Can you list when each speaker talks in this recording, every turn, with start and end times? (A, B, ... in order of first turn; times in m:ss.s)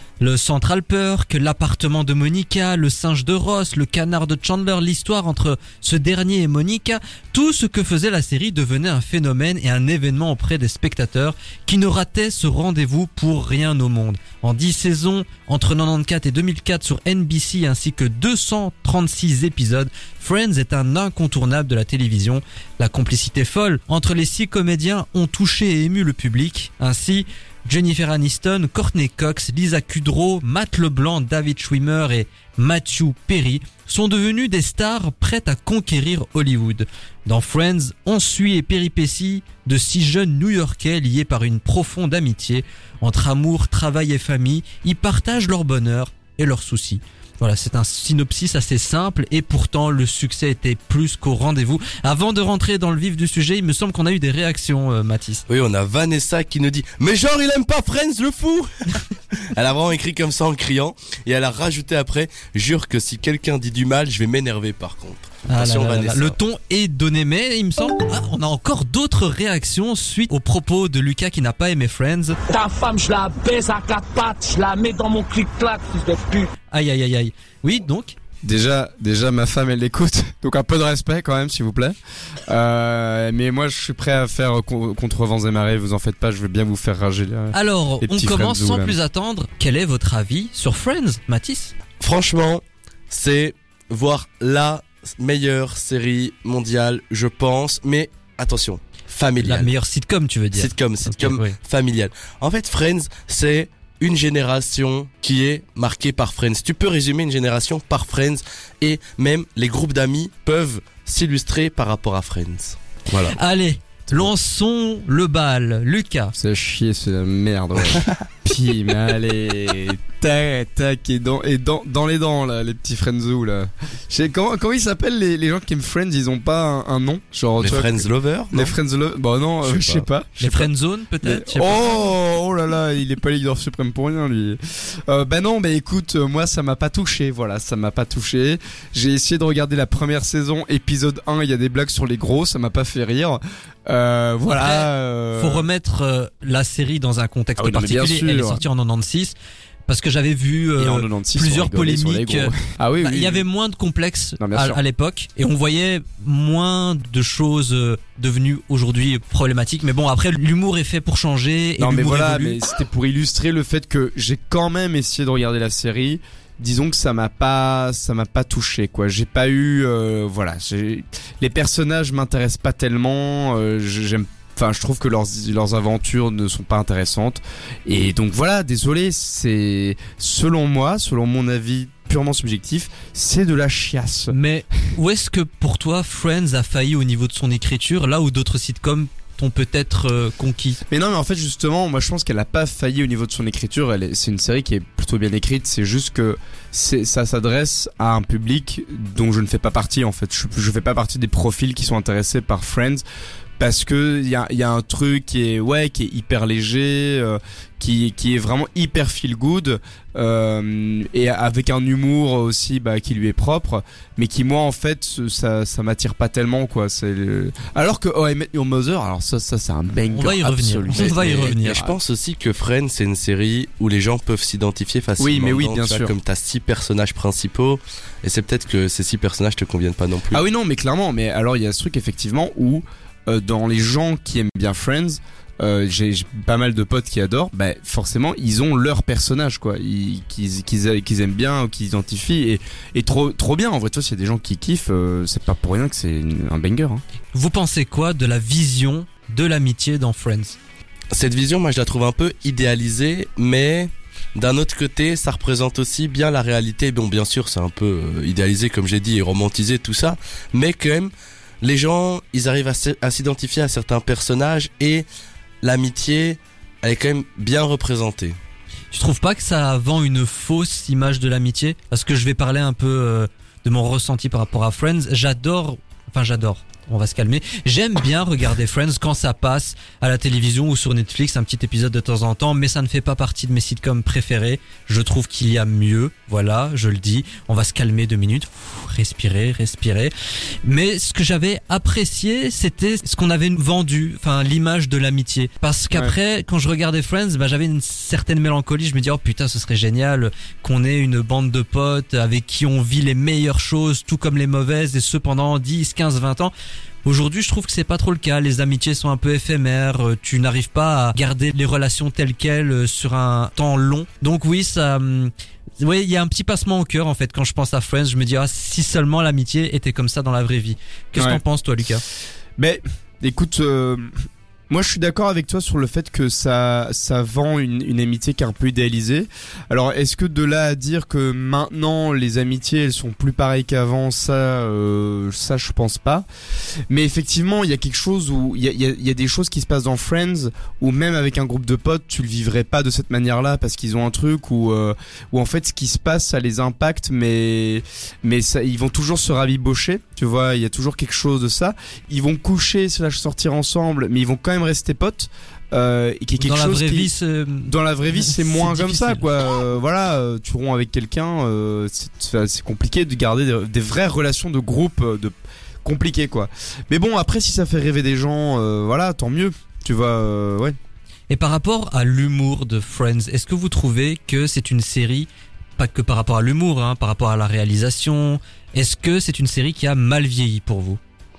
0:00.2-0:55.4 A
0:55.5-1:06.4 B
1:05.5-1:12.4 A
1:12.5-1:16.5 C
1:16.7-1:18.1 A
1:18.4-1:29.0 D
1:27.5-1:31.7 A
1:32.0-1:39.7 B
1:39.4-1:41.6 A
1:40.5-1:53.4 B
1:53.3-1:56.3 A
1:56.4-2:10.7 D
2:07.6-2:08.8 B
2:09.6-2:10.0 B
2:10.4-2:11.9 A
2:11.2-2:25.6 D
2:24.5-2:29.3 A
2:27.6-2:28.6 D
2:29.9-2:42.6 A
2:30.8-2:33.4 D
2:34.4-2:34.8 D
2:41.8-3:04.4 D
3:04.3-3:10.8 A
3:10.9-3:23.0 D
3:23.6-3:42.0 D
3:40.1-3:41.8 A
3:41.0-3:50.4 B
3:45.2-3:46.1 D
3:50.3-4:07.0 D
4:07.3-4:10.6 A
4:11.1-4:25.0 B
4:25.6-4:28.4 B
4:28.9-4:50.1 A
4:50.6-5:06.5 A
5:07.0-5:22.0 A
5:21.1-5:21.4 D
5:22.6-5:24.1 D
5:24.7-5:36.2 D
5:36.9-5:57.1 D
5:56.4-5:59.2 A
5:57.6-6:10.8 D
6:11.3-6:21.0 A